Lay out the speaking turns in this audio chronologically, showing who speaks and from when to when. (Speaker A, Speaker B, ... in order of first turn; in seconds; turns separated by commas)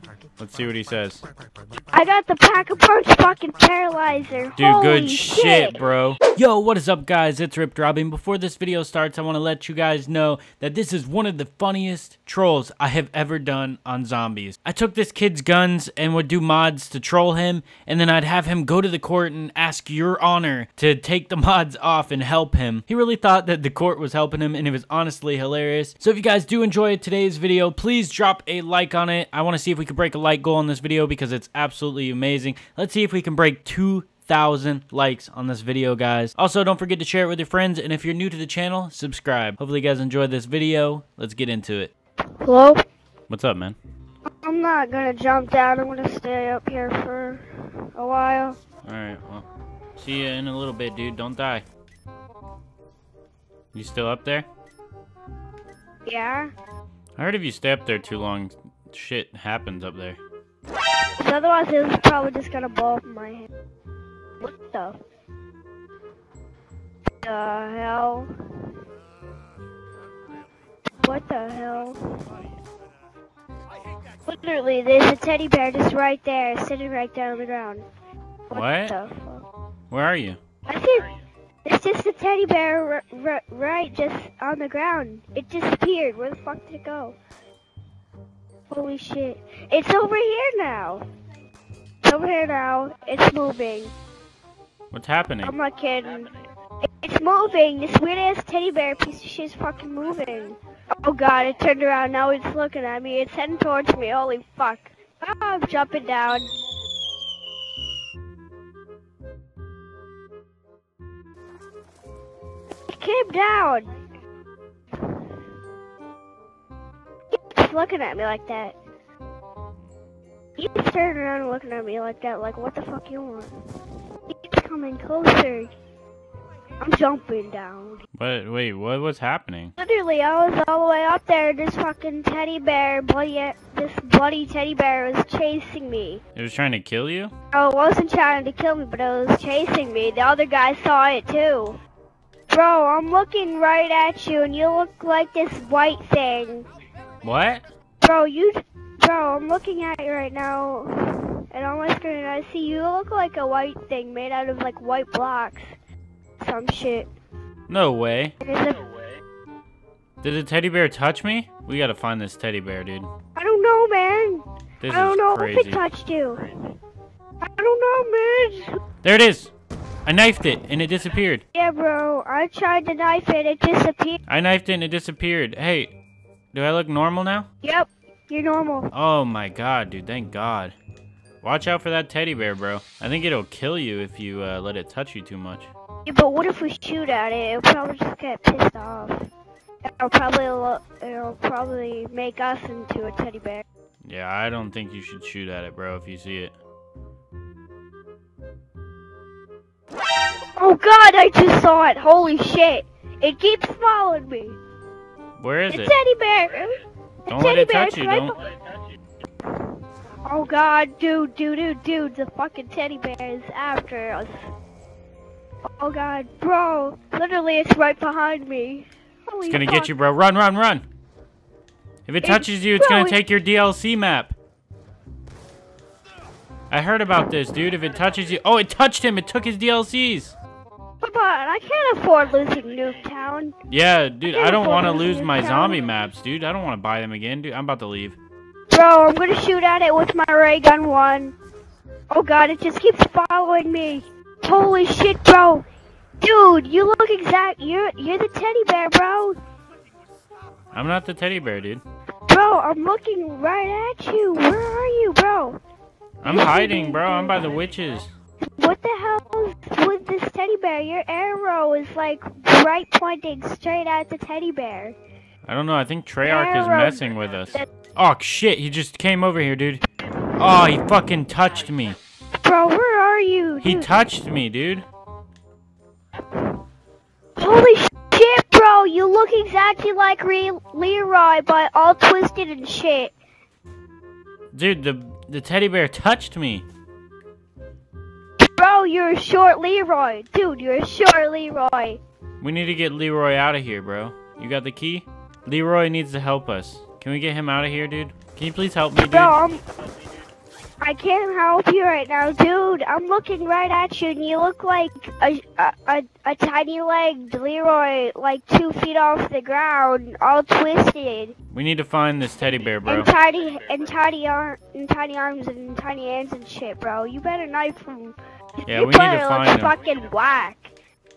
Speaker A: 0.4-1.2, Speaker B: 1.9-5.8, Speaker A: 4.6-41.9, Speaker B: 42.4-42.8, Speaker A: 43.3-43.8, Speaker B: 44.3-48.6, Speaker A: 48.8-49.5, Speaker A: 50.0-51.6, Speaker A: 53.7-54.5, Speaker B: 56.1-56.5, Speaker A: 57.2-60.2, Speaker B: 61.2-63.5, Speaker B: 64.4-65.0, Speaker B: 67.2-68.3, Speaker B: 71.0-72.0, Speaker B: 74.3-77.8, Speaker B: 78.5-79.5, Speaker A: 78.5-79.0, Speaker A: 79.9-80.4, Speaker B: 80.7-81.1, Speaker B: 81.7-87.2, Speaker B: 88.7-91.0, Speaker B: 92.0-93.9, Speaker A: 94.9-95.5, Speaker B: 95.4-96.4, Speaker B: 97.0-106.5, Speaker B: 112.9-113.9, Speaker B: 117.3-118.8, Speaker B: 120.6-123.5, Speaker B: 124.3-125.7, Speaker B: 126.8-128.0, Speaker A: 128.2-129.7, Speaker B: 129.8-136.2, Speaker A: 136.4-137.3, Speaker B: 137.5-141.8, Speaker B: 142.5-146.7, Speaker A: 147.2-147.7, Speaker B: 148.0-155.7, Speaker B: 156.4-157.1, Speaker A: 157.7-158.3, Speaker B: 158.4-158.8, Speaker A: 160.2-163.1, Speaker B: 163.4-166.4, Speaker A: 164.8-165.8, Speaker B: 167.4-168.8, Speaker A: 169.0-169.5, Speaker A: 170.1-171.4, Speaker B: 171.5-174.2, Speaker A: 174.3-175.9, Speaker A: 176.5-177.5, Speaker B: 177.6-178.9, Speaker A: 178.9-180.8, Speaker A: 181.4-185.7, Speaker B: 186.1-189.3, Speaker B: 189.9-193.6, Speaker A: 194.1-196.6, Speaker B: 200.6-204.6, Speaker A: 205.4-205.9, Speaker B: 205.7-208.4, Speaker A: 207.3-208.4, Speaker B: 210.2-214.4, Speaker B: 215.8-219.9, Speaker A: 219.5-220.9, Speaker A: 222.1-224.3, Speaker B: 222.2-223.2, Speaker A: 226.7-230.3, Speaker B: 231.0-233.5, Speaker A: 233.7-238.2, Speaker B: 234.3-235.9, Speaker B: 238.7-241.3, Speaker B: 242.1-245.6, Speaker B: 246.2-249.4, Speaker A: 250.7-251.8, Speaker B: 252.3-255.6, Speaker A: 256.2-258.1, Speaker B: 256.2-257.4, Speaker B: 258.6-265.0, Speaker A: 265.4-269.8, Speaker B: 266.2-267.7, Speaker A: 270.4-272.0, Speaker B: 272.4-274.0, Speaker A: 273.6-274.9, Speaker B: 277.4-283.1, Speaker A: 284.5-286.7, Speaker B: 288.5-292.0, Speaker A: 292.4-299.4, Speaker B: 299.0-299.6, Speaker B: 300.8-311.4, Speaker A: 311.5-313.1, Speaker B: 312.9-320.7, Speaker A: 318.7-319.8